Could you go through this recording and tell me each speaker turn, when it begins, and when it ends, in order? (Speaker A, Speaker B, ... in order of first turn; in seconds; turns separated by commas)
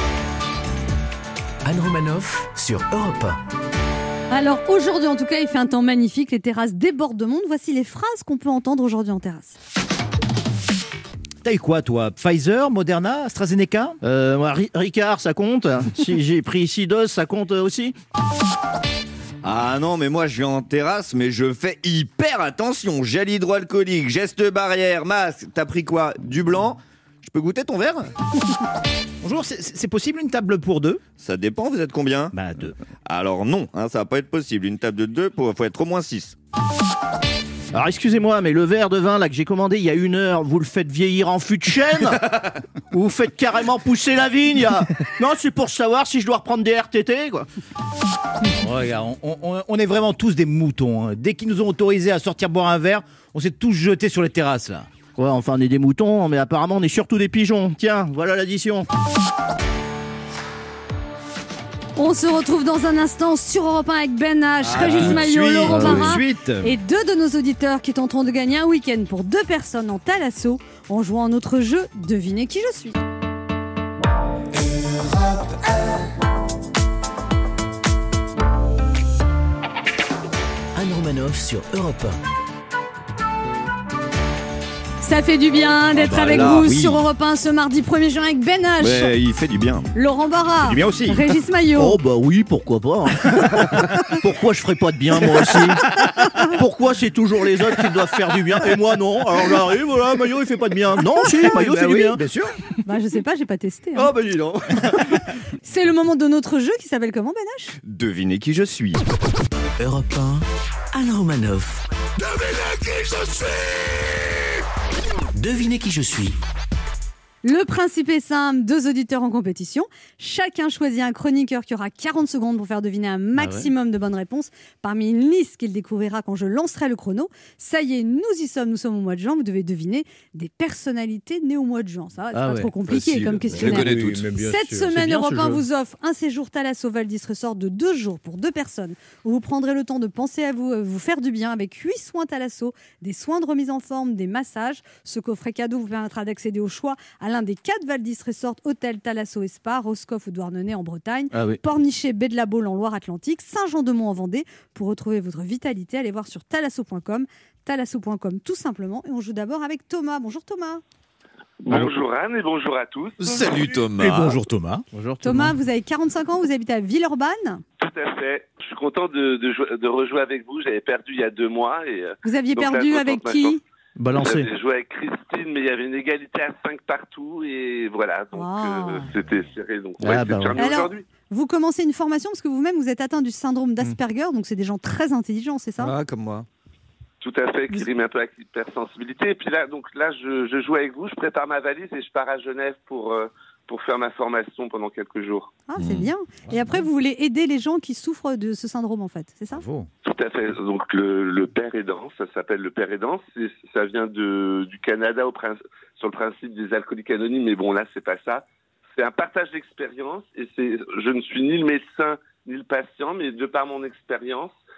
Speaker A: 1.6-3.4, Speaker B: 4.3-9.6, Speaker C: 11.4-14.0, Speaker D: 14.0-18.0, Speaker E: 19.4-28.1, Speaker C: 29.2-31.0, Speaker E: 31.2-36.4, Speaker C: 32.3-32.8, Speaker D: 37.7-42.2, Speaker D: 42.9-47.5, Speaker C: 48.5-54.9, Speaker D: 55.2-58.9, Speaker B: 62.0-73.0, Speaker E: 64.6-66.1, Speaker C: 65.7-66.8, Speaker A: 80.8-82.2, Speaker B: 85.0-89.2, Speaker E: 86.0-87.0, Speaker E: 88.8-89.9, Speaker B: 90.0-92.0, Speaker C: 90.6-91.3, Speaker D: 91.8-95.9, Speaker C: 95.5-96.0, Speaker D: 96.5-102.2, Speaker C: 101.2-102.5, Speaker B: 102.8-104.1, Speaker D: 104.0-105.0, Speaker B: 105.6-107.8, Speaker E: 107.8-109.0, Speaker A: 109.8-111.8, Speaker A: 115.3-116.4, Speaker B: 117.4-160.8, Speaker D: 123.4-123.7, Speaker D: 132.3-132.8, Speaker E: 132.9-134.3, Speaker C: 133.5-135.6, Speaker D: 135.0-135.2, Speaker D: 151.3-151.6, Speaker F: 161.6-163.8, Speaker E: 163.2-164.4, Speaker C: 164.0-164.8, Speaker D: 164.9-165.5, Speaker B: 165.2-167.6, Speaker F: 167.8-173.6, Speaker B: 172.2-173.6, Speaker D: 174.0-174.5, Speaker F: 174.1-181.1, Speaker B: 178.3-179.1, Speaker D: 180.0-180.6, Speaker B: 180.6-185.9, Speaker E: 185.8-186.5, Speaker F: 187.2-195.5, Speaker B: 195.7-199.6, Speaker E: 195.8-196.1, Speaker C: 196.5-196.8, Speaker C: 199.5-199.9, Speaker F: 200.1-208.4, Speaker F: 209.0-214.6